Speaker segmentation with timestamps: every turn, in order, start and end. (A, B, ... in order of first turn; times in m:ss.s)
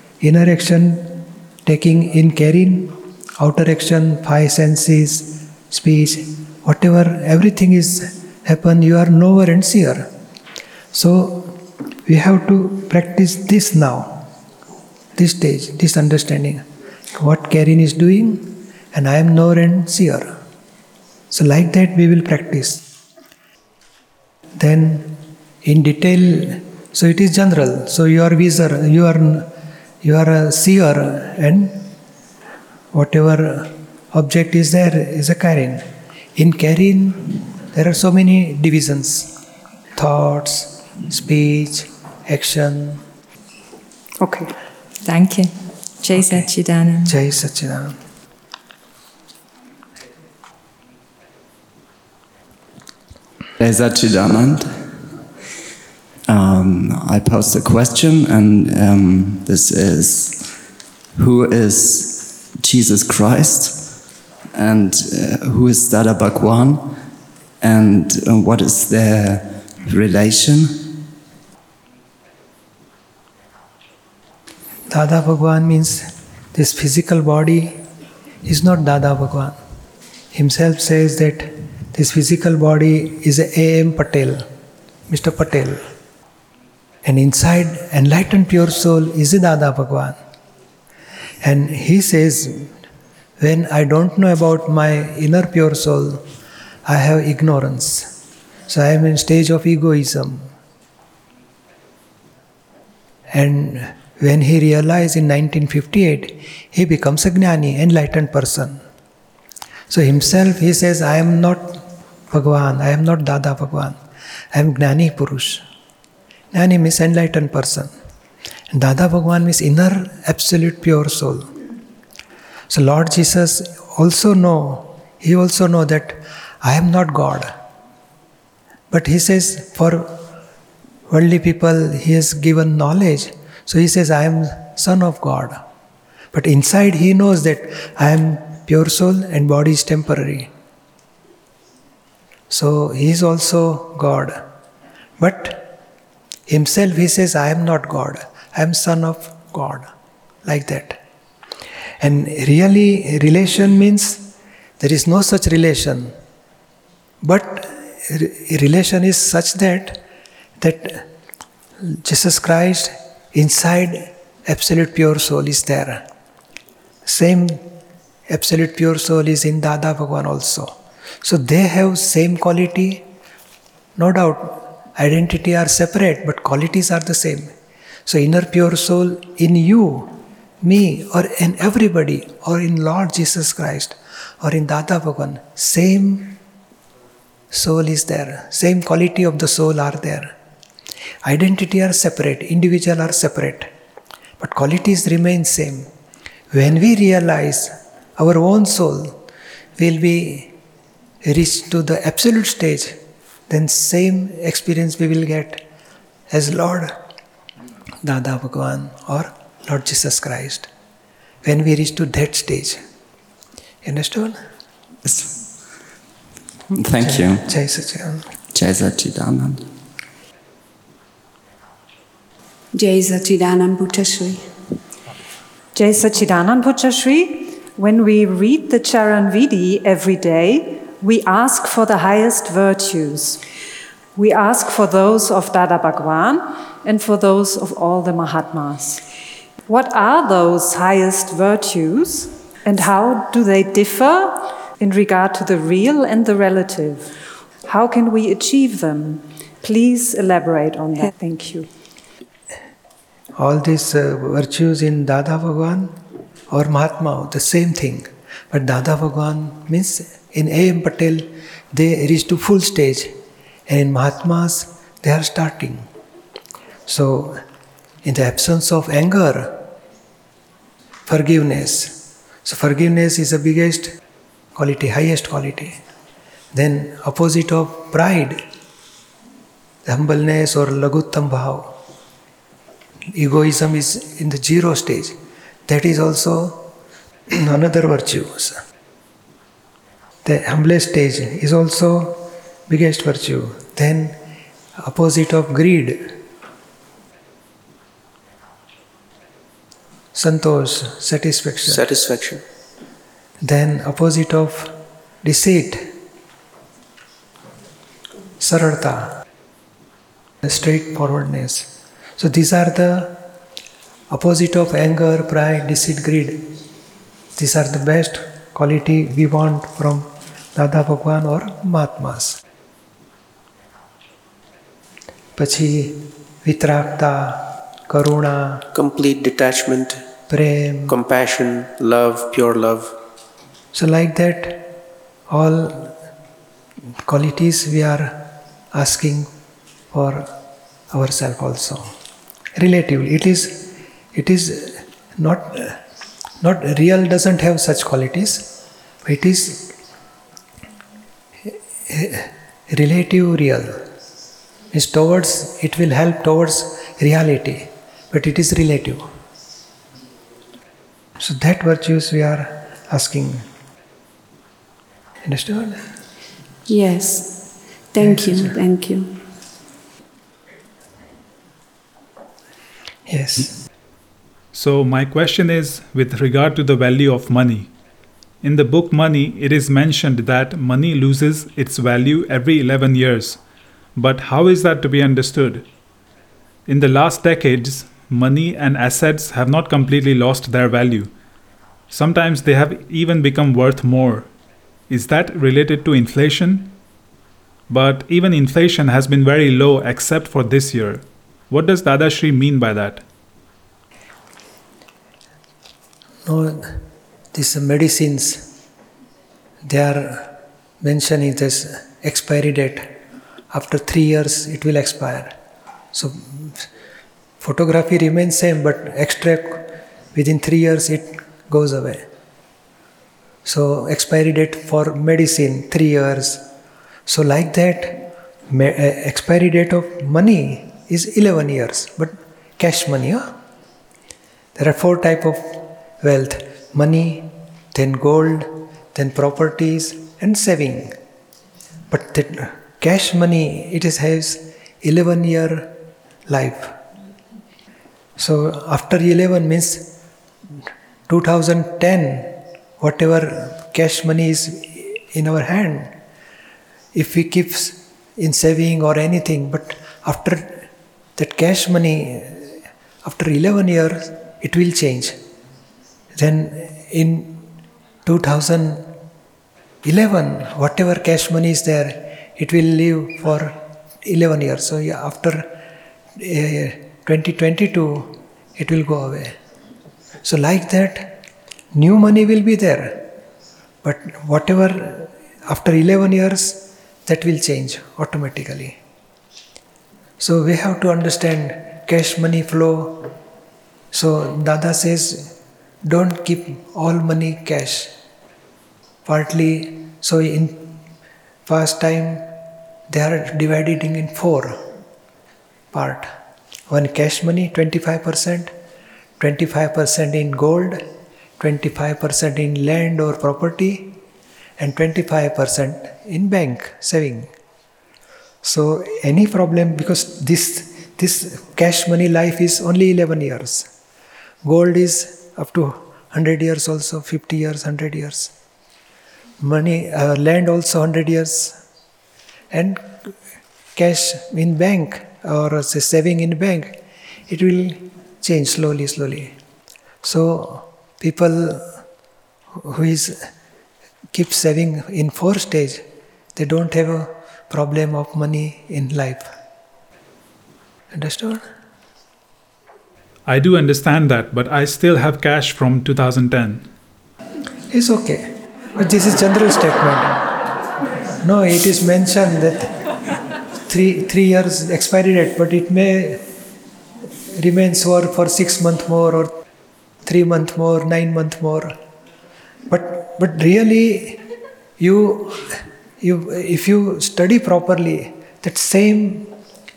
0:00.2-0:10.1 A
0:10.9-0:14.3 A
0:15.1-0:16.6 A
0:17.1-0:20.4 A
0:21.3-0:22.8 A
0:24.6-0:29.5 A
0:30.0-0:31.9 A
0:32.9-0:39.4 A
0:40.0-0:43.0 A
0:44.2-0:44.5 B
0:45.0-0:47.2 C
0:46.1-0:46.5 A
0:47.0-0:48.0 A
0:53.6-0:55.0 D
0:56.3-1:00.6 D
1:01.2-1:04.0 D
1:04.5-1:07.0 D
1:07.6-1:11.0 D
1:14.9-1:17.8 A
1:18.4-1:19.6 A
1:20.3-1:24.5 A
1:25.1-1:25.8 A
1:27.0-1:30.2 A
1:31.4-1:32.7 A
1:33.4-1:36.2 A
1:36.8-1:38.2 A
1:38.7-1:40.5 A
1:43.3-1:48.8 A
1:49.9-1:54.0 A
1:54.5-1:55.6 A
1:56.5-1:57.9 A
1:58.7-2:01.5 A
2:02.7-2:07.5 A
2:08.9-2:10.2 A
2:11.1-2:15.6 A
2:16.3-2:20.5 A
2:22.5-2:24.5 A
2:25.2-2:25.7 A
2:26.5-2:29.9 A
2:30.4-2:31.0 A
2:32.0-2:36.1 A
2:37.2-2:40.0 A
2:40.6-2:41.1 A
2:41.8-2:46.0 A
2:47.0-2:47.7 A
2:48.3-2:53.0 A
2:54.0-2:57.5 A
2:58.1-3:06.4 A
3:07.5-3:10.3 A
3:11.2-3:13.7 A
3:14.4-3:15.9 A
3:16.5-3:19.2 A
3:19.8-3:20.6 A
3:21.2-3:25.6 A
3:26.3-3:27.0 A
3:28.0-3:30.7 A
3:31.4-3:32.8 A
3:33.8-3:34.4 A
3:35.0-3:35.4 D
3:36.7-3:37.5 D
3:37.0-3:38.3 A
3:38.5-3:39.6 D
3:42.7-3:44.5 E
3:45.7-3:53.4 B
3:54.1-3:59.0 B
3:59.7-4:07.1 B
4:07.6-4:11.7 B
4:13.4-4:16.0 A
4:16.5-4:23.2 A
4:23.7-4:25.9 A
4:26.9-4:27.4 A
4:28.0-4:29.7 A
4:31.0-4:33.9 A
4:34.5-4:35.8 A
4:36.5-4:38.4 A
4:39.8-4:41.8 A
4:43.1-4:46.7 A
4:47.3-4:48.6 A
4:50.2-4:54.2 A
4:54.8-4:56.2 A
5:00.2-5:01.9 A
5:01.6-5:02.4 F
5:03.4-5:05.9 A
5:08.4-5:09.2 A
5:10.4-5:13.2 A
5:14.1-5:16.5 A
5:17.4-5:22.4 A
5:25.4-5:28.7 A
5:28.7-5:30.0 F
5:30.3-5:31.0 A
5:30.9-5:33.0 F
5:33.7-5:34.7 A
5:35.3-5:36.0 A
5:37.1-5:39.3 A
5:39.9-5:40.4 A
5:40.9-5:41.9 A
5:42.6-5:45.8 A
5:46.4-5:49.8 A
5:51.4-5:53.8 A
5:54.7-5:59.1 A
6:01.2-6:03.5 A
6:05.2-6:05.9 A
6:06.7-6:09.2 E
6:08.0-6:08.6 A
6:13.1-6:13.6 A
6:14.5-6:17.7 G
6:18.4-6:23.4 G
6:24.0-6:25.7 G
6:26.7-6:31.1 G
6:31.9-6:34.3 G
6:34.9-6:36.8 G
6:37.7-6:43.0 G
6:46.2-6:48.5 A
6:49.6-6:52.9 A
6:53.5-6:55.4 A
6:55.9-6:56.7 A
6:57.4-7:02.1 A
7:03.4-7:06.4 A
7:07.1-7:13.4 A
7:14.6-7:21.0 A
7:21.9-7:25.8 A
7:26.3-7:26.8 A
7:28.2-7:30.0 A
7:30.6-7:35.9 A
7:36.9-7:40.7 A
7:41.2-7:45.2 A
7:46.2-7:47.5 A
7:48.0-7:48.9 A
7:49.8-7:55.5 A
7:56.2-7:59.4 A
8:00.2-8:01.2 A
8:01.7-8:03.1 A
8:03.8-8:08.8 A
8:10.2-8:13.1 A
8:13.9-8:17.9 A
8:19.0-8:20.8 A
8:21.5-8:22.3 A
8:22.9-8:24.6 A
8:25.7-8:26.1 A
8:26.7-8:28.5 A
8:29.2-8:30.9 A
8:31.4-8:34.0 A
8:34.6-8:37.3 A
8:38.4-8:43.7 A
8:44.4-8:48.3 A
8:49.4-8:51.6 A
8:52.5-8:53.2 A
8:53.8-8:59.4 A
9:00.0-9:01.8 A
9:02.6-9:03.3 A
9:04.1-9:05.8 A
9:06.4-9:09.3 A
9:10.9-9:11.5 A
9:13.2-9:16.7 G
9:17.7-9:20.3 A
9:21.2-9:22.8 A
9:23.6-9:26.2 A
9:27.2-9:29.4 A
9:30.0-9:31.8 A
9:32.7-9:34.2 A
9:34.8-9:39.4 A